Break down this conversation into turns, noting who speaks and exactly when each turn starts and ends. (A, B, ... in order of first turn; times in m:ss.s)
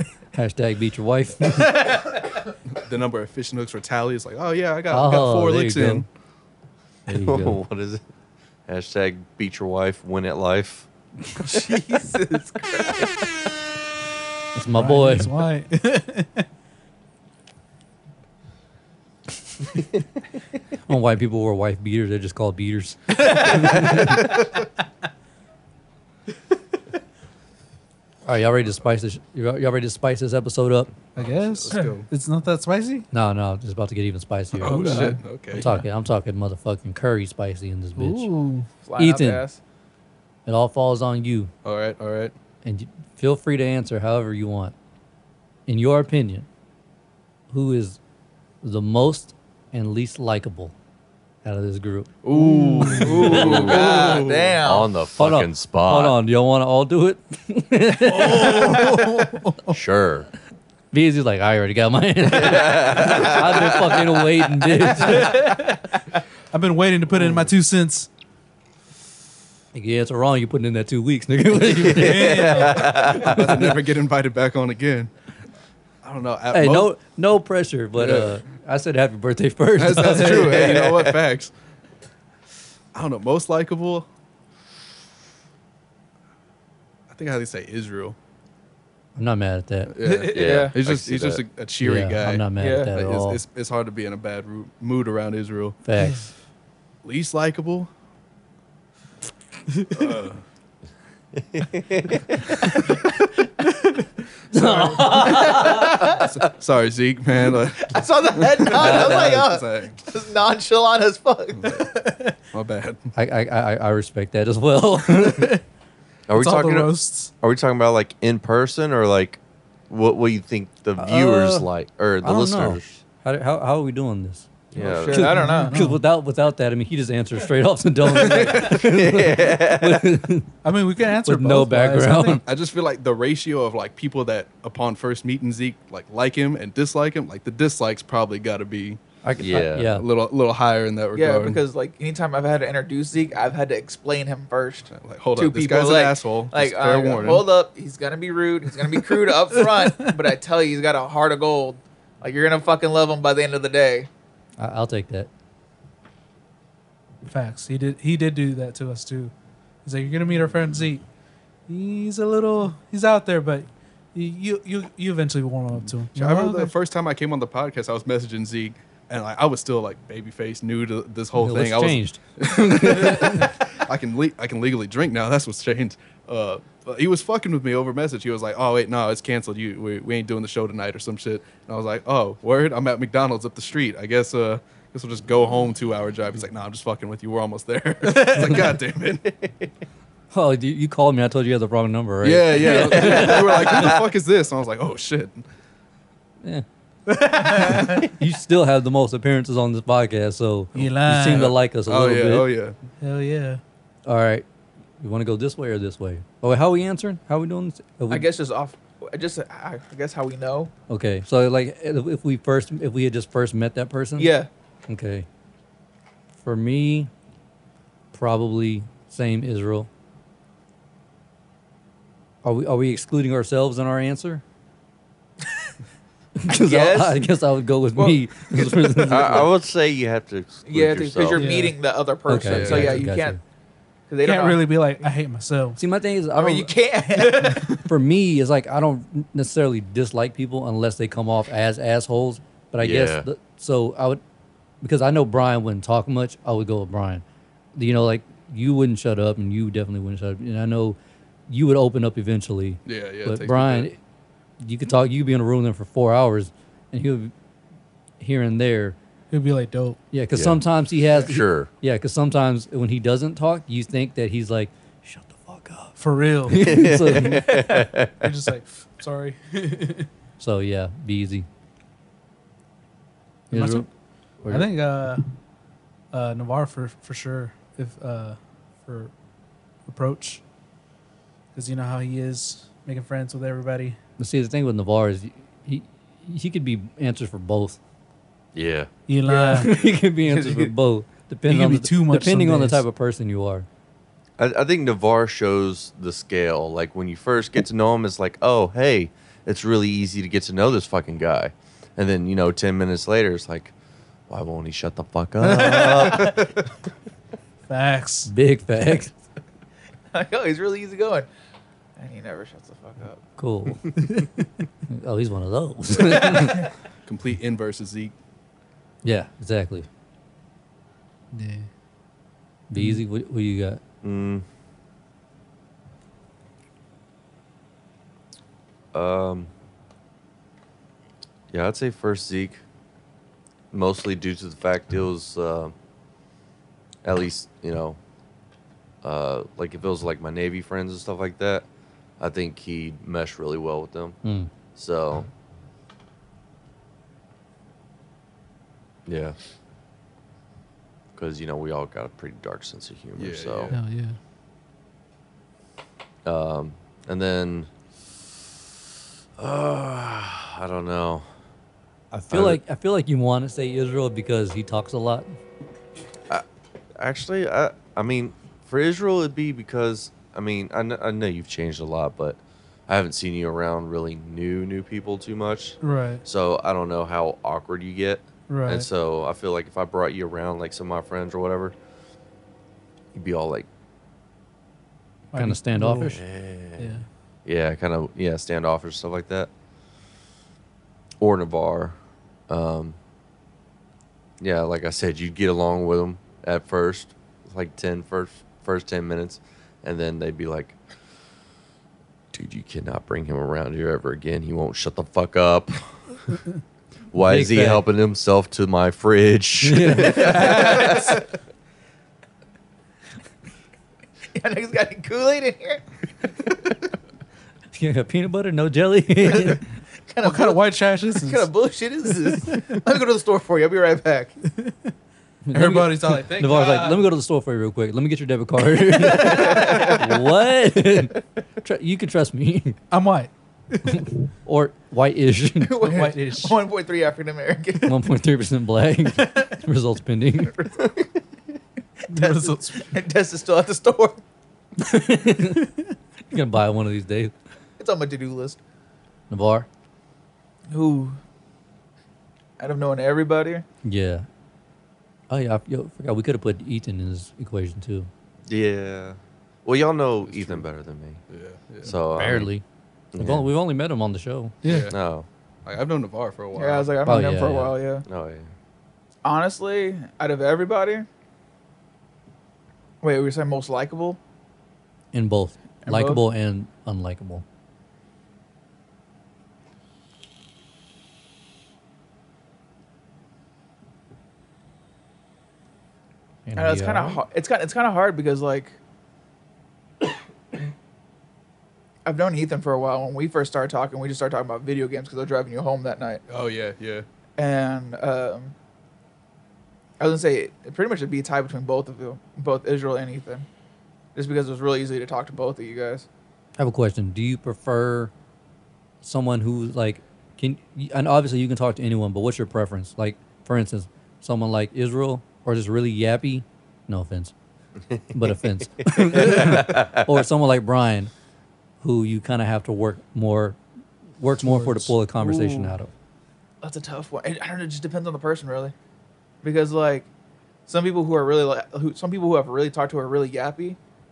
0:00.3-0:01.8 A
0:02.7-0:06.1 B
0:04.9-0:06.1 A
0:07.1-0:07.6 A
0:07.1-0:08.0 C
0:08.7-0:10.9 C
0:11.5-0:13.2 D
0:14.6-0:15.3 A
0:14.7-0:16.5 E
0:20.9-0:24.3 A
0:23.4-0:24.1 E
0:28.2-0:30.9 A
0:31.2-0:33.1 E
0:31.2-0:32.1 B
0:33.1-0:38.3 A
0:34.6-0:35.2 E
0:34.6-0:35.7 B
0:38.0-0:38.7 E
0:38.8-0:39.6 D
0:39.0-0:39.4 A
0:40.5-0:41.5 A
0:41.6-0:42.3 B
0:42.6-0:44.7 A
0:45.7-0:46.5 A
0:47.5-0:48.0 A
0:48.6-0:50.7 A
0:51.4-0:52.1 A
0:52.2-0:54.6 B
0:52.3-0:53.2 E
0:52.8-0:54.9 D
0:53.2-0:56.2 C
0:55.2-0:59.1 A
0:58.0-0:59.8 E
0:59.7-1:00.3 C
1:00.9-1:05.5 A
1:02.3-1:04.5 C
1:05.0-1:05.9 E
1:06.5-1:08.1 E
1:09.7-1:13.8 A
1:11.8-1:13.5 C
1:12.0-1:12.8 E
1:12.8-1:15.1 B
1:16.0-1:16.9 B
1:16.5-1:20.9 A
1:18.0-1:18.4 B
1:19.8-1:21.5 B
1:20.6-1:21.0 C
1:22.9-1:24.1 B
1:27.1-1:28.2 B
1:29.2-1:29.9 A
1:29.9-1:35.8 B
1:30.0-1:30.4 E
1:30.3-1:30.8 D
1:30.3-1:31.4 C
1:31.8-1:33.4 A
1:32.6-1:32.9 D
1:35.8-1:36.3 A
1:36.0-1:36.3 E
1:37.0-1:37.9 B
1:39.9-1:40.4 B
1:41.4-1:42.2 C
1:44.5-1:45.9 A
1:45.5-1:46.2 D
1:45.5-1:50.0 B
1:47.8-1:51.9 D
1:48.8-1:49.5 A
1:51.6-1:51.9 B
1:52.0-1:52.3 E
1:52.5-1:53.1 B
1:53.2-1:55.5 A
1:55.1-1:55.6 E
1:56.3-2:03.0 C
1:56.3-1:57.3 E
2:01.0-2:01.7 A
2:02.2-2:04.5 A
2:04.7-2:05.4 C
2:04.8-2:05.7 D
2:05.2-2:06.0 E
2:05.2-2:10.5 A
2:08.3-2:10.2 C
2:10.6-2:12.4 E
2:11.2-2:12.4 A
2:12.4-2:19.0 B
2:19.2-2:20.0 A
2:19.4-2:19.9 C
2:19.8-2:21.6 B
2:21.2-2:34.1 D
2:24.9-2:27.5 B
2:34.6-2:35.3 A
2:37.3-2:39.3 E
2:39.8-2:41.0 E
2:41.7-2:46.7 E
2:46.1-3:09.4 B
2:51.3-2:53.5 A
3:08.0-3:08.7 E
3:10.3-3:14.0 A
3:12.2-3:15.4 B
3:17.1-3:18.1 E
3:17.4-3:22.5 A
3:20.8-3:21.5 E
3:21.3-3:22.8 B
3:23.0-3:23.6 E
3:24.1-3:24.5 A
3:25.0-3:28.3 A
3:28.1-3:30.7 D
3:30.9-3:34.4 A
3:34.2-3:34.5 D
3:34.9-3:35.3 A
3:36.4-3:37.1 A
3:38.1-3:39.9 A
3:42.4-3:44.4 A
3:46.4-3:49.5 A
3:46.6-3:47.3 D
3:48.0-3:49.3 D
3:49.1-3:51.5 C
3:50.7-3:53.4 D
3:51.3-3:51.8 E
3:52.3-3:53.4 A
3:52.5-3:53.0 B
3:54.1-3:54.8 D
3:54.2-3:55.8 E
3:55.8-3:56.7 A
3:56.3-3:57.8 D
3:57.2-3:57.8 E
3:57.6-4:04.2 A
4:02.8-4:03.3 C
4:04.8-4:07.2 A
4:07.8-4:11.0 A
4:11.5-4:14.0 A
4:12.9-4:13.9 B
4:14.6-4:17.3 A
4:18.2-4:19.0 A
4:19.3-4:20.0 E
4:20.1-4:27.5 A
4:20.3-4:21.7 C
4:26.0-4:26.9 E
4:26.6-4:28.3 C
4:28.2-4:30.1 E
4:30.4-4:31.5 A
4:33.5-4:33.9 A
4:33.5-4:33.9 E
4:34.4-4:34.7 A
4:34.4-4:35.3 E
4:36.1-4:39.1 E
4:39.9-4:40.4 E
4:41.6-4:44.0 E
4:44.2-4:47.8 A
4:48.5-4:48.9 C
4:49.1-4:49.7 E
4:49.3-4:50.7 D
4:49.5-4:53.7 A
4:51.5-4:52.8 E
4:54.4-5:03.8 C
5:04.3-5:06.5 C
5:05.4-5:06.4 E
5:07.7-5:08.3 E
5:08.3-5:09.2 A
5:10.1-5:11.3 D
5:12.0-5:13.2 D
5:13.4-5:14.0 A
5:14.9-5:16.6 A
5:17.1-5:18.1 B
5:19.0-5:19.9 A
5:21.3-5:21.7 E
5:22.7-5:23.8 A
5:22.8-5:23.0 E
5:24.0-5:24.4 C
5:28.9-5:29.5 C
5:31.5-5:32.6 C
5:33.7-5:35.7 C
5:37.0-5:38.0 C
5:39.0-5:41.7 C
5:42.2-5:44.2 C
5:44.2-5:44.5 A
5:44.8-5:45.3 C
5:49.1-5:49.4 C
5:51.2-5:53.7 C
5:53.2-5:53.8 B
5:53.7-5:54.2 E
5:56.2-5:57.7 C
5:59.4-6:01.3 C
6:02.1-6:05.3 A
6:02.3-6:02.6 C
6:07.0-6:21.8 C
6:15.8-6:16.2 E
6:18.5-6:18.9 E
6:23.1-6:23.7 C
6:25.3-6:26.2 E
6:25.4-6:26.2 A
6:26.0-6:29.5 C
6:26.8-6:27.1 E
6:31.2-6:32.0 C
6:32.5-6:33.0 C
6:34.4-6:40.8 C
6:42.3-6:46.3 C
6:47.1-6:51.2 C
6:47.2-6:47.8 A
6:49.6-6:50.6 A
6:50.4-6:51.2 D
6:54.4-6:55.9 D
6:57.7-6:59.6 A
7:00.1-7:04.3 D
7:00.2-7:01.5 E
7:05.5-7:12.8 A
7:05.5-7:07.1 E
7:08.9-7:10.1 D
7:12.9-7:14.0 E
7:13.9-7:15.9 A
7:15.6-7:18.0 D
7:15.8-7:16.6 E
7:17.8-7:20.6 A
7:20.6-7:21.1 D
7:22.1-7:22.9 E
7:22.1-7:24.2 D
7:24.8-7:25.7 A
7:26.3-7:27.3 A
7:27.8-7:28.6 D
7:29.3-7:29.7 A
7:30.7-7:31.2 D
7:32.6-7:33.6 D
7:33.8-7:34.3 A
7:35.3-7:38.1 A
7:38.5-7:41.2 C
7:40.3-7:40.7 B
7:41.3-7:42.0 B
7:41.8-7:42.5 C
7:42.2-7:42.6 A
7:43.1-7:43.5 C
7:43.2-7:44.5 A
7:44.6-7:44.9 E
7:44.6-7:45.0 B
7:44.9-7:45.3 C
7:45.7-7:46.9 B
7:46.6-7:48.0 D
7:47.0-7:47.8 A
7:48.1-7:48.5 C
7:49.2-7:51.1 D
7:53.0-7:54.2 D
7:55.1-7:57.4 A
7:55.8-7:56.2 D
8:06.5-8:07.2 A
8:06.6-8:08.8 D
8:12.0-8:16.2 D
8:16.3-8:17.0 B
8:17.4-8:18.5 D
8:20.0-8:23.5 D
8:24.2-8:26.1 D
8:26.6-8:28.1 A
8:29.0-8:37.3 A
8:37.9-8:40.1 C
8:38.1-8:41.1 A
8:41.8-8:43.6 A
8:44.2-8:45.9 A
8:44.4-8:44.9 E
8:45.2-8:45.8 D
8:46.6-8:48.7 D
8:49.4-8:50.1 D
8:50.7-8:53.8 D